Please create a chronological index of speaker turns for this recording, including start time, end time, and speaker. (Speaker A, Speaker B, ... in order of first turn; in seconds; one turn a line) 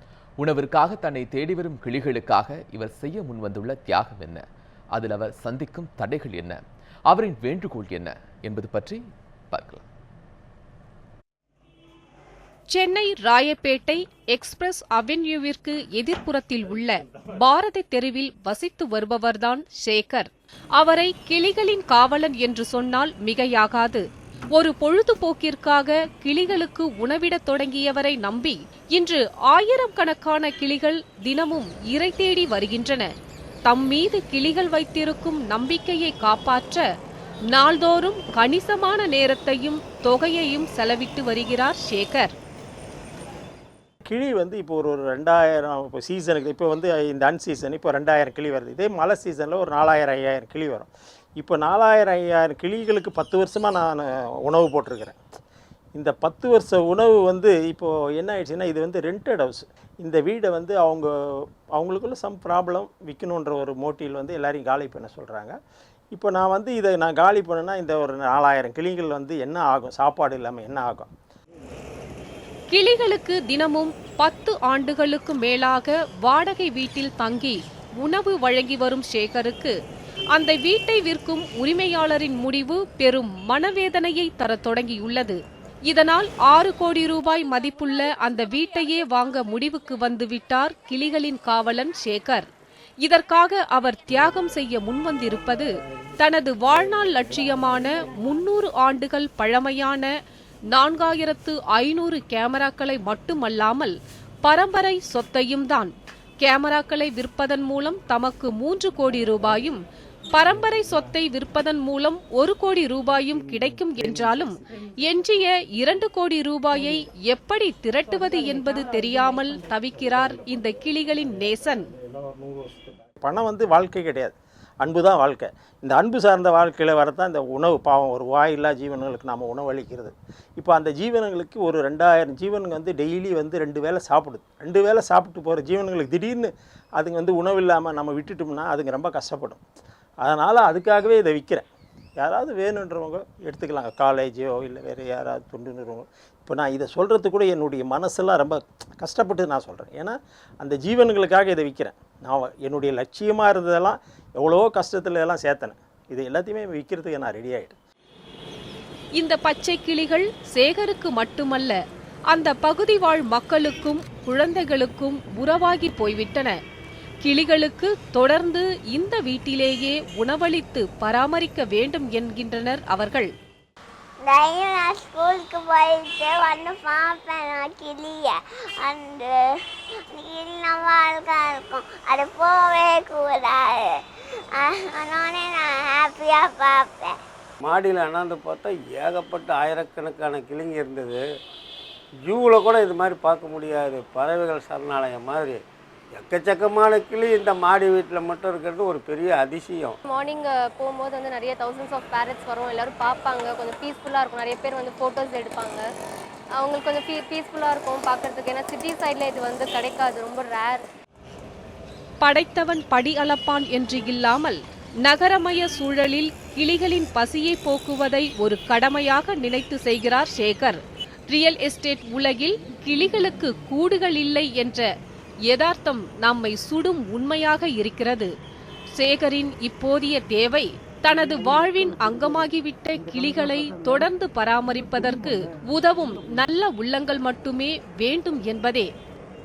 Speaker A: 0.4-9.8
Speaker B: 12.7-33.1
Speaker B: 33.6-36.8
Speaker B: 37.5-42.3
Speaker C: 44.1-55.2
Speaker C: 55.9-65.5
Speaker C: 66.1-71.1
Speaker B: 72.7-79.7
Speaker B: 80.3-92.5
Speaker B: 93.0-100.1
Speaker B: 100.7-109.8
Speaker B: 110.3-121.9
Speaker C: 123.2-139.6
Speaker C: 140.2-141.7
Speaker C: 142.2-157.8
Speaker B: 159.1-161.8
Speaker B: 162.3-166.6
Speaker B: 167.2-173.3
Speaker D: 174.2-179.4
Speaker D: 180.1-184.0
Speaker D: 184.6-187.2
Speaker E: 187.6-191.2
Speaker E: 192.2-195.6
Speaker E: 196.2-200.0
Speaker F: 200.1-205.8
Speaker F: 206.6-210.8
Speaker B: 212.2-224.9
Speaker B: 225.4-228.3
Speaker B: 228.9-238.9